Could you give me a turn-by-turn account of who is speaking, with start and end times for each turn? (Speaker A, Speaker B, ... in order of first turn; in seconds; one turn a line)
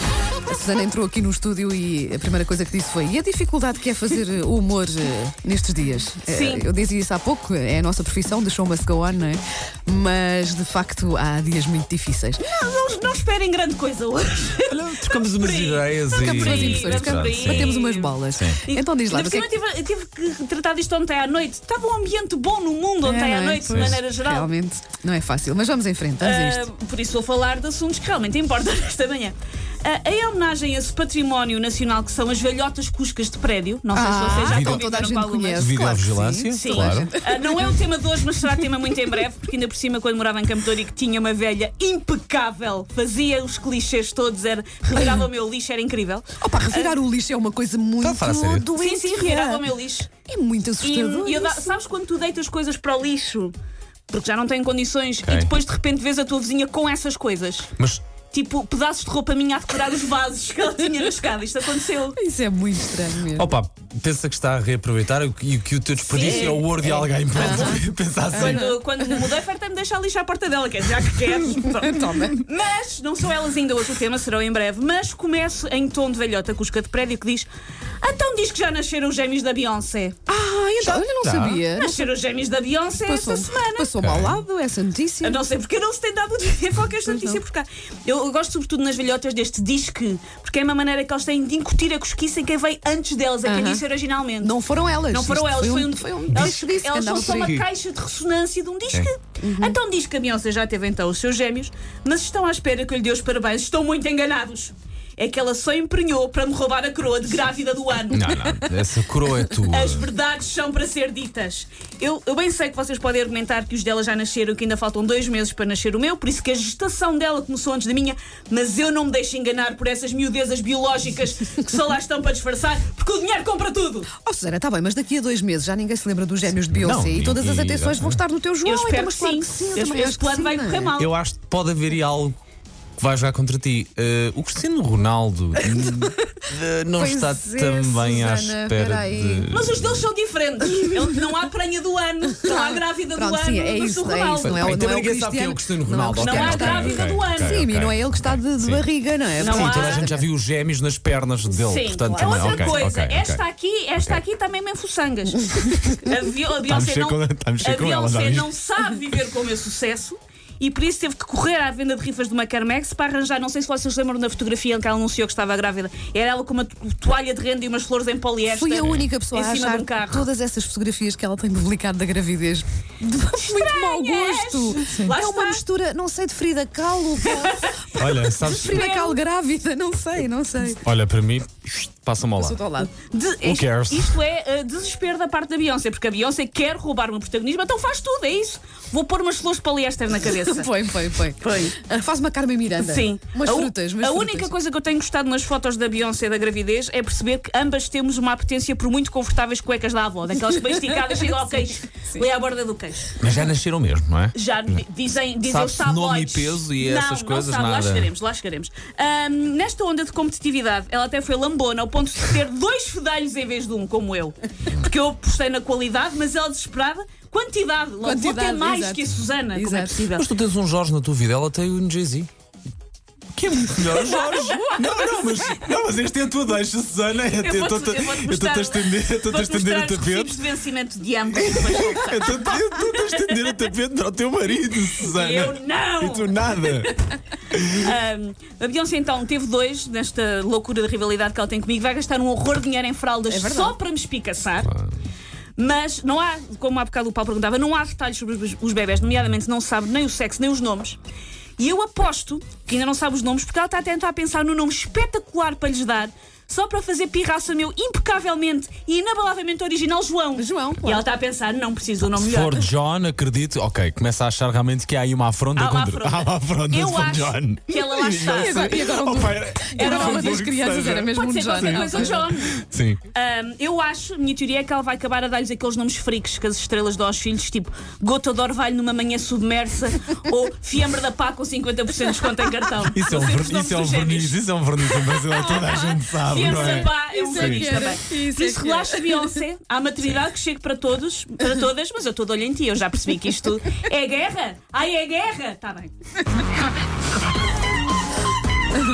Speaker A: 0.5-12.5
Speaker B: 6.3-6.7
Speaker B: 12.4-24.5
Speaker C: 14.7-17.7
Speaker A: 16.1-19.5
Speaker C: 18.3-18.6
Speaker A: 23.0-26.7
Speaker C: 23.7-24.0
Speaker B: 26.2-35.8
Speaker A: 33.9-39.0
Speaker C: 34.4-34.9
Speaker C: 35.5-37.1
Speaker B: 36.5-47.0
Speaker A: 46.4-49.7
Speaker C: 48.0-48.7
Speaker B: 48.7-50.1
Speaker A: 50.3-51.7
Speaker B: 50.8-53.5
Speaker B: 54.1-57.7
Speaker C: 55.2-55.5
Speaker B: 58.3-62.2
Speaker A: 62.1-63.6
Speaker C: 63.3-68.7
Speaker B: 66.0-66.7
Speaker A: 66.2-67.8
Speaker A: 68.3-69.2
Speaker B: 68.3-77.5
Speaker A: 71.5-72.4
Speaker B: 78.0-80.2
Speaker A: 80.3-82.1
Speaker C: 80.8-81.6
Speaker B: 81.7-83.9
Speaker A: 83.0-85.4
Speaker C: 84.0-84.4
Speaker B: 85.2-94.5
Speaker A: 87.0-87.4
Speaker A: 93.4-93.8
Speaker A: 94.4-97.5
Speaker B: 95.1-108.3
Speaker C: 97.1-97.6
Speaker A: 99.4-99.8
Speaker C: 108.1-110.1
Speaker B: 109.6-124.1
Speaker A: 124.2-130.9
Speaker C: 126.6-128.2
Speaker B: 128.6-131.1
Speaker C: 131.0-132.4
Speaker C: 133.0-140.1
Speaker A: 135.6-136.4
Speaker A: 136.9-139.5
Speaker B: 139.5-144.9
Speaker A: 140.8-141.1
Speaker A: 142.3-150.2
Speaker C: 144.4-148.8
Speaker B: 146.2-147.6
Speaker B: 149.4-150.1
Speaker C: 149.4-153.4
Speaker B: 151.6-170.2
Speaker A: 152.1-152.8
Speaker C: 156.7-158.5
Speaker A: 168.5-180.9
Speaker C: 168.8-169.1
Speaker B: 173.3-175.6
Speaker B: 177.2-177.8
Speaker C: 177.9-178.8
Speaker B: 178.6-179.2
Speaker C: 180.8-182.6
Speaker A: 182.4-182.9
Speaker B: 182.9-190.7
Speaker C: 183.4-184.2
Speaker A: 190.2-194.5
Speaker B: 192.8-203.2
Speaker C: 203.2-204.3
Speaker B: 204.3-220.3
Speaker C: 205.4-208.1
Speaker A: 218.0-220.1
Speaker C: 220.2-222.3
Speaker C: 223.3-230.4
Speaker B: 224.0-225.2
Speaker B: 227.3-233.6
Speaker C: 231.3-237.9
Speaker B: 235.0-236.9
Speaker B: 237.7-244.7
Speaker A: 243.3-243.8
Speaker B: 245.6-251.0
Speaker B: 251.6-262.6
Speaker A: 260.4-261.1
Speaker C: 262.0-273.0
Speaker B: 265.6-268.8
Speaker A: 268.2-272.3
Speaker B: 269.7-272.5
Speaker B: 273.1-295.9
Speaker C: 282.9-287.7
Speaker A: 286.4-289.4